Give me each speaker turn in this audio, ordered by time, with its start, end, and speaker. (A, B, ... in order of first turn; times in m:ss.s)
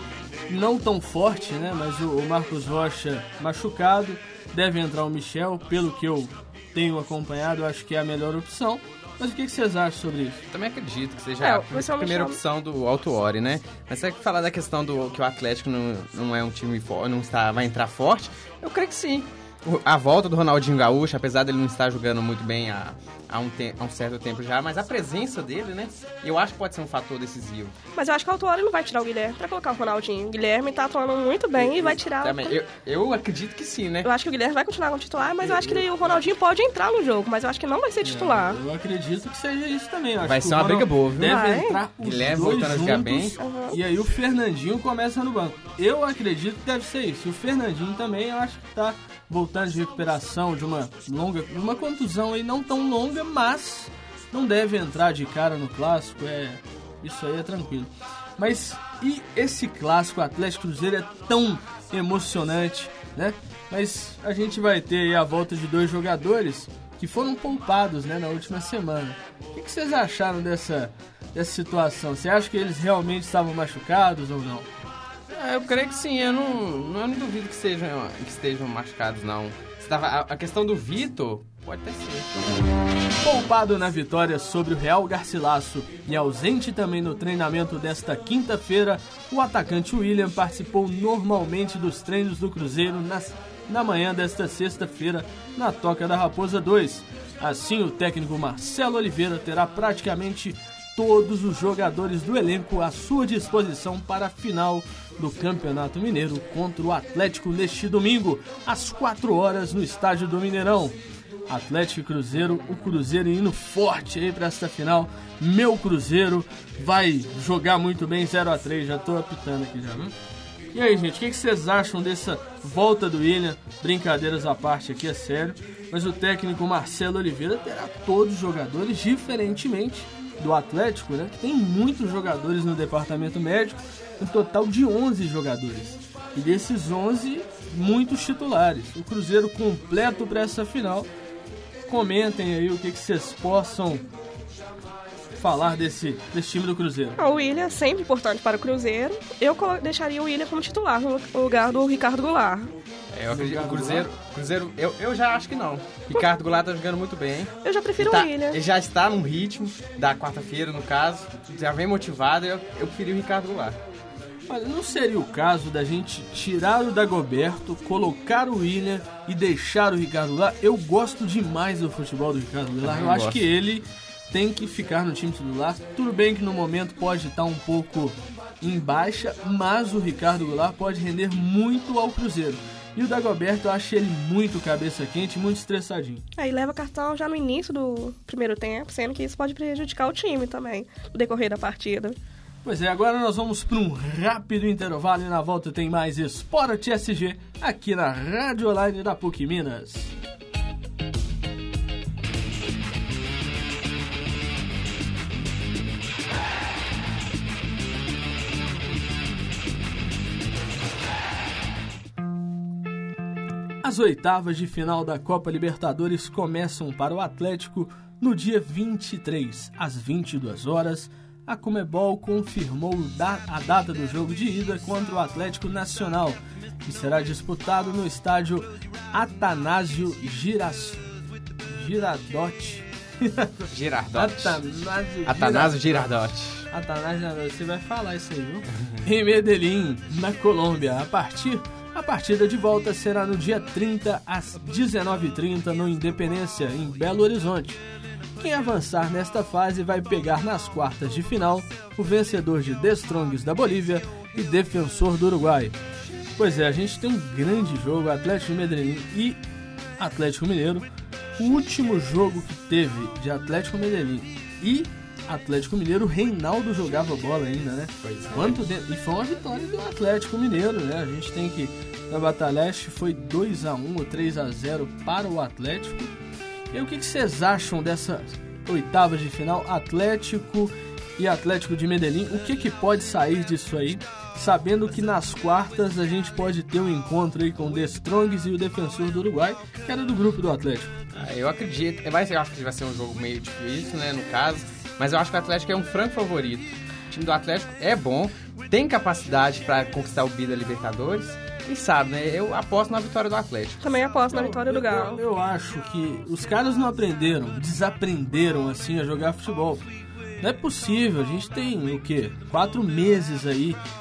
0:00.5-0:10.4 A
0:10.5-0:27.8 B
0:11.4-0:12.4 C
0:27.9-0:32.6 C
0:31.6-0:34.1 B
0:34.0-0:38.6 C
0:35.4-0:36.2 A
0:38.0-1:14.7 A
0:40.2-0:41.5 B
0:41.2-0:41.8 C
0:42.0-0:43.4 B
0:43.4-0:43.8 C
1:15.3-1:22.4 B
1:23.2-1:51.0 A
1:51.5-2:00.1 A
2:00.7-2:21.1 A
2:21.9-2:24.1 A
2:25.4-2:27.2 A
2:27.2-2:32.7 C
2:33.1-2:43.8 B
2:33.3-2:34.1 A
2:37.6-2:38.6 C
2:44.5-3:06.2 A
2:52.8-2:53.4 B
3:06.4-3:12.2 C
3:12.6-3:20.1 A
3:33.8-3:51.0 A
3:51.6-3:56.1 A
3:53.7-3:54.6 B
3:55.2-3:56.7 B
3:56.7-4:07.8 A
4:08.4-4:15.8 A
4:16.4-4:19.4 A
4:20.0-4:36.2 A
4:28.0-4:28.6 B
4:36.7-4:51.0 A
4:51.1-5:03.8 B
5:03.8-5:05.2 C
5:04.3-5:09.9 A
5:10.4-5:13.8 A